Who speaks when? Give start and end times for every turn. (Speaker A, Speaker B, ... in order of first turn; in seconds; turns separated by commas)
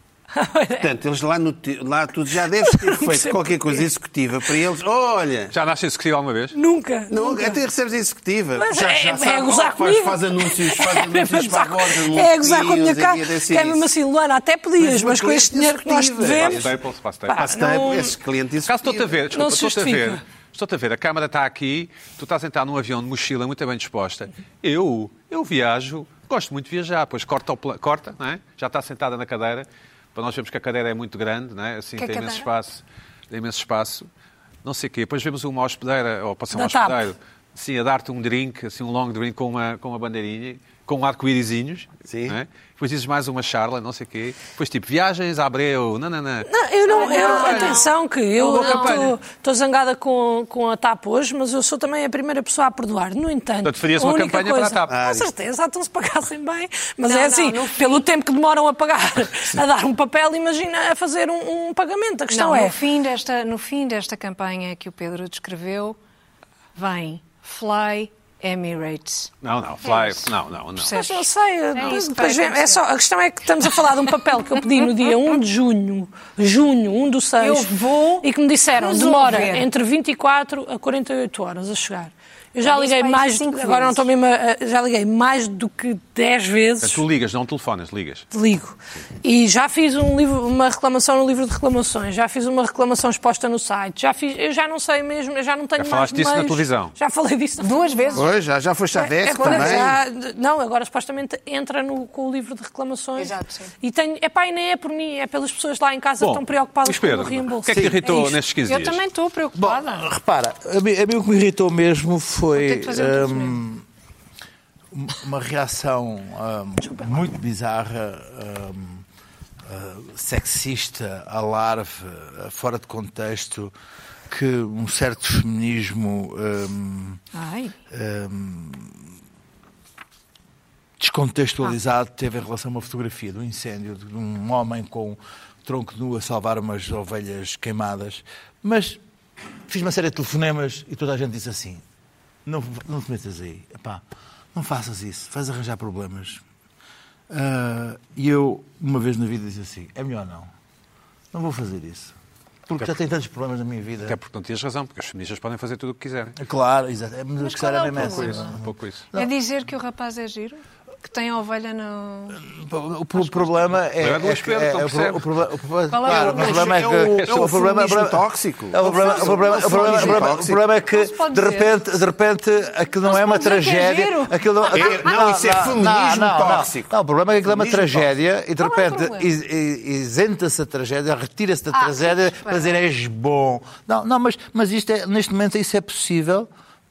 Speaker A: 0.3-0.9, Speaker B: 0.8-5.5, Speaker A: 2.5-3.8, Speaker C: 5.5-6.5, Speaker A: 6.5-7.6, Speaker B: 7.1-13.9, Speaker A: 8.6-16.8, Speaker B: 14.8-16.8, Speaker C: 16.2-17.4, Speaker A: 17.3-18.2, Speaker B: 17.4-19.1, Speaker C: 18.6-34.1, Speaker A: 19.3-20.2, Speaker D: 31.9-32.5, Speaker C: 34.6-49.2, Speaker A: 36.5-37.1, Speaker B: 42.1-42.4, Speaker A: 46.5-62.8, Speaker D: 46.9-47.9, Speaker D: 48.5-49.1, Speaker C: 53.6-54.9, Speaker B: 54.9-55.3, Speaker D: 57.0-58.0, Speaker D: 62.3-66.0, Speaker D: 66.7-69.3, Speaker C: 69.4-71.0, Speaker D: 69.8-70.2, Speaker D: 70.8-72.8, Speaker A: 70.9-87.0, Speaker D: 77.4-79.7, Speaker D: 82.6-84.1, Speaker C: 86.8-88.3, Speaker A: 88.3-98.2, Speaker C: 95.8-96.9, Speaker D: 97.6-98.3, Speaker B: 98.1-100.0, Speaker A: 98.9-108.4, Speaker D: 99.3-99.9, Speaker D: 103.2-103.7, Speaker C: 106.2-109.0, Speaker E: 107.7-108.0, Speaker D: 108.6-110.1, Speaker E: 109.5-113.8, Speaker D: 112.5-113.6, Speaker E: 114.9-119.0, Speaker A: 116.8-117.2, Speaker E: 119.6-123.7, Speaker E: 124.3-127.2, Speaker D: 127.3-127.7, Speaker E: 127.9-129.0, Speaker E: 131.0-139.0, Speaker E: 139.7-141.8, Speaker E: 142.4-144.0, Speaker E: 144.5-146.4, Speaker E: 147.3-150.5, Speaker E: 151.3-152.1, Speaker E: 152.7-154.2, Speaker C: 154.0-156.3, Speaker E: 156.4-159.3, Speaker D: 157.4-158.6, Speaker C: 157.9-159.1, Speaker D: 159.1-162.4, Speaker E: 162.4-186.5, Speaker C: 163.9-165.2, Speaker D: 165.9-166.8, Speaker B: 166.0-170.6, Speaker D: 168.8-171.7, Speaker D: 173.0-175.0, Speaker B: 174.7-176.9, Speaker B: 177.4-178.1, Speaker D: 178.6-179.3, Speaker D: 181.7-182.8